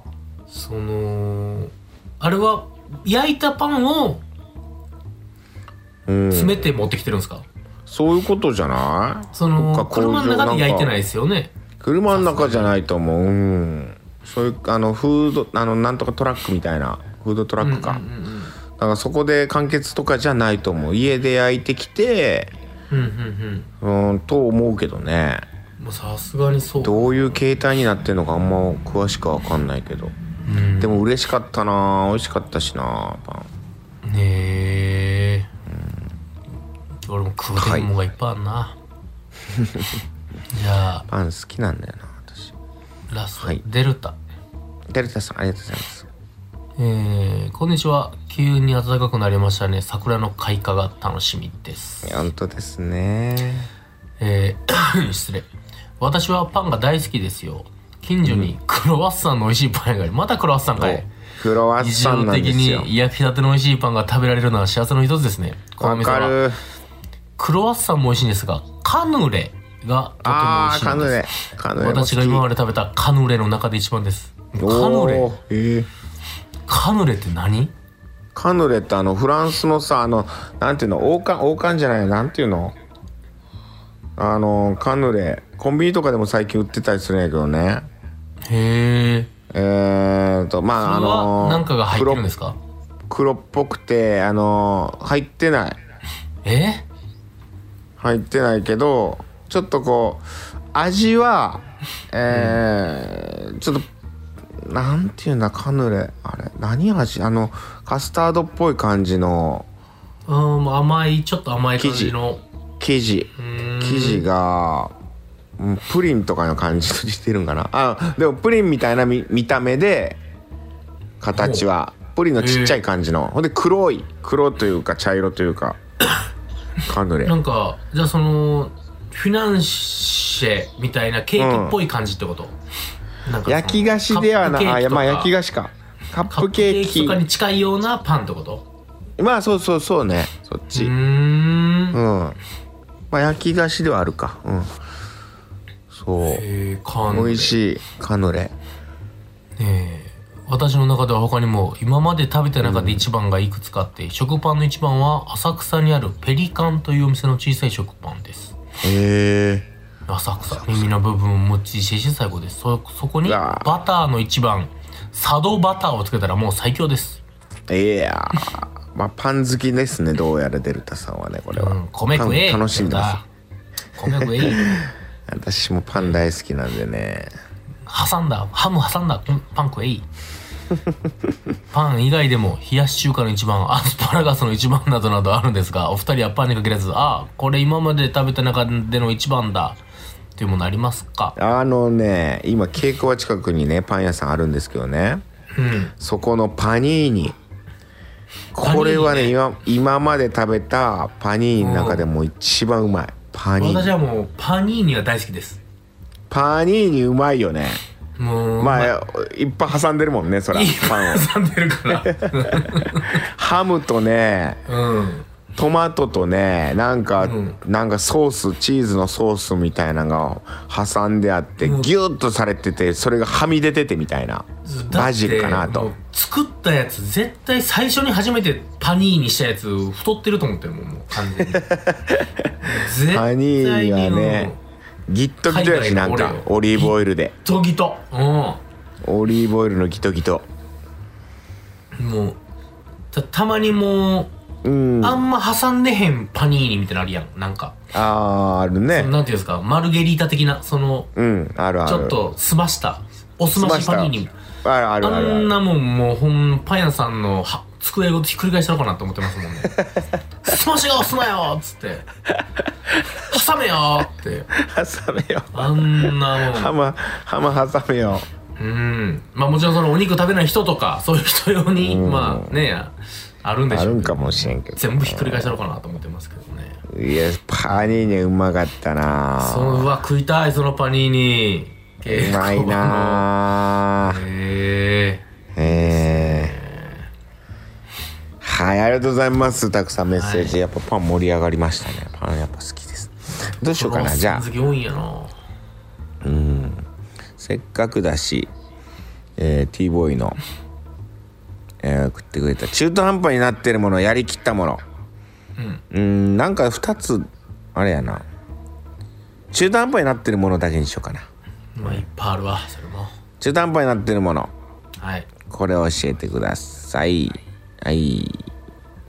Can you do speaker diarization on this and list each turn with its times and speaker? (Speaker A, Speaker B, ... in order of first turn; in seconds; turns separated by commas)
Speaker A: 0.5-4.2, Speaker B: 6.1-6.7, Speaker A: 6.3-7.5, Speaker B: 7.9-10.9, Speaker A: 9.3-11.5, Speaker B: 11.8-18.0, Speaker A: 12.1-12.8, Speaker A: 17.6-18.5, Speaker B: 18.8-22.5, Speaker A: 22.9-23.7, Speaker B: 23.8-25.4, Speaker A: 25.8-27.3, Speaker B: 26.8-30.1, Speaker A: 30.4-31.1, Speaker B: 30.8-33.5, Speaker A: 34.0-35.5, Speaker B: 35.7-36.0, Speaker A: 37.0-38.8, Speaker B: 37.5-37.9, Speaker B: 39.5-40.0, Speaker A: 40.5-41.0, Speaker B: 41.1-42.5, Speaker A: 43.1-44.2, Speaker B: 43.4-43.6, Speaker B: 44.9-46.1, Speaker A: 46.8-52.2, Speaker B: 52.0-53.7, Speaker A: 54.2-55.5, Speaker A: 56.0-61.1, Speaker B: 58.2-58.5, Speaker B: 60.8-62.9, Speaker A: 61.8-66.4, Speaker B: 65.8-66.6, Speaker A: 67.4-71.2, Speaker B: 70.2-72.4, Speaker A: 71.8-75.3, Speaker B: 74.6-75.9, Speaker A: 76.7-77.7, Speaker B: 78.3-82.7, Speaker B: 84.2-87.9, Speaker A: 88.4-89.3, Speaker B: 89.5-92.2, Speaker A: 90.8-92.6, Speaker B: 93.1-95.8, Speaker A: 96.4-96.8, Speaker B: 98.0-103.9, Speaker A: 102.3-102.6, Speaker B: 104.6-109.7, Speaker A: 110.2-112.4, Speaker B: 111.8-112.1, Speaker B: 112.8-114.9, Speaker A: 113.3-114.2, Speaker B: 115.6-120.2, Speaker B: 121.2-125.8, Speaker A: 121.3-121.6, Speaker A: 122.4-122.8, Speaker B: 126.8-127.3, Speaker A: 127.2-132.5, Speaker B: 131.4-131.8, Speaker A: 133.2-135.3, Speaker B: 133.4-137.2, Speaker A: 136.3-138.6, Speaker B: 139.2-140.9, Speaker A: 140.7-142.0, Speaker B: 141.9-142.4, Speaker B: 143.1-144.7, Speaker B: 145.9-146.4, Speaker A: 146.2-147.6, Speaker B: 147.1-148.5, Speaker A: 149.6-158.5, Speaker B: 152.6-153.0, Speaker B: 158.8-159.7, Speaker A: 160.1-167.2, Speaker B: 160.5-160.8, Speaker B: 163.2-163.7, Speaker B: 167.7-173.2, Speaker A: 171.5-173.2, Speaker A: 173.9-174.6, Speaker B: 174.1-177.3, Speaker A: 177.8-180.1, Speaker A: 181.7-189.8, Speaker A: 190.3-191.3, Speaker B: 191.3-195.2, Speaker A: 195.5-195.9, Speaker B: 196.0-197.3, Speaker B: 198.5-203.9, Speaker A: 198.6-199.3, Speaker A: 201.6-202.1, Speaker A: 203.6-205.6, Speaker B: 206.3-207.8, Speaker A: 208.2-208.9, Speaker B: 208.6-211.3, Speaker A: 210.5-213.2, Speaker B: 211.9-214.6, Speaker A: 214.7-215.2, Speaker B: 215.5-225.9, Speaker A: 217.2-217.6, Speaker A: 221.6-221.9, Speaker A: 224.6-231.6, Speaker B: 231.4-234.5, Speaker A: 232.6-234.6, Speaker B: 235.1-237.3, Speaker A: 235.5-238.6, Speaker B: 239.0-240.5, Speaker A: 241.9-242.4, Speaker A: 243.1-244.3, Speaker B: 244.6-245.2, Speaker A: 245.0-247.8, Speaker B: 247.9-249.1, Speaker A: 248.9-251.1, Speaker B: 251.2-252.2, Speaker A: 251.8-254.3, Speaker B: 253.5-255.5, Speaker A: 255.0-259.8, Speaker A: 260.4-262.1, Speaker A: 263.2-264.5, Speaker B: 264.5-268.2, Speaker A: 265.5-266.7, Speaker A: 268.6-276.8, Speaker B: 271.8-272.5, Speaker B: 273.7-275.5, Speaker B: 276.9-279.9, Speaker A: 279.4-283.3, Speaker B: 282.0-284.2, Speaker A: 284.0-287.1, Speaker B: 285.5-286.5, Speaker B: 288.4-294.5, Speaker A: 290.1-290.6, Speaker A: 293.3-295.4, Speaker B: 296.2-296.9, Speaker B: 297.4-298.5, Speaker B: 299.4-300.4, Speaker B: 301.8-304.8, Speaker A: 305.6-305.8, Speaker B: 305.9-308.2, Speaker B: 309.5-311.2, Speaker A: 311.7-313.1, Speaker B: 313.4-314.5, Speaker A: 315.0-315.3, Speaker B: 315.5-318.5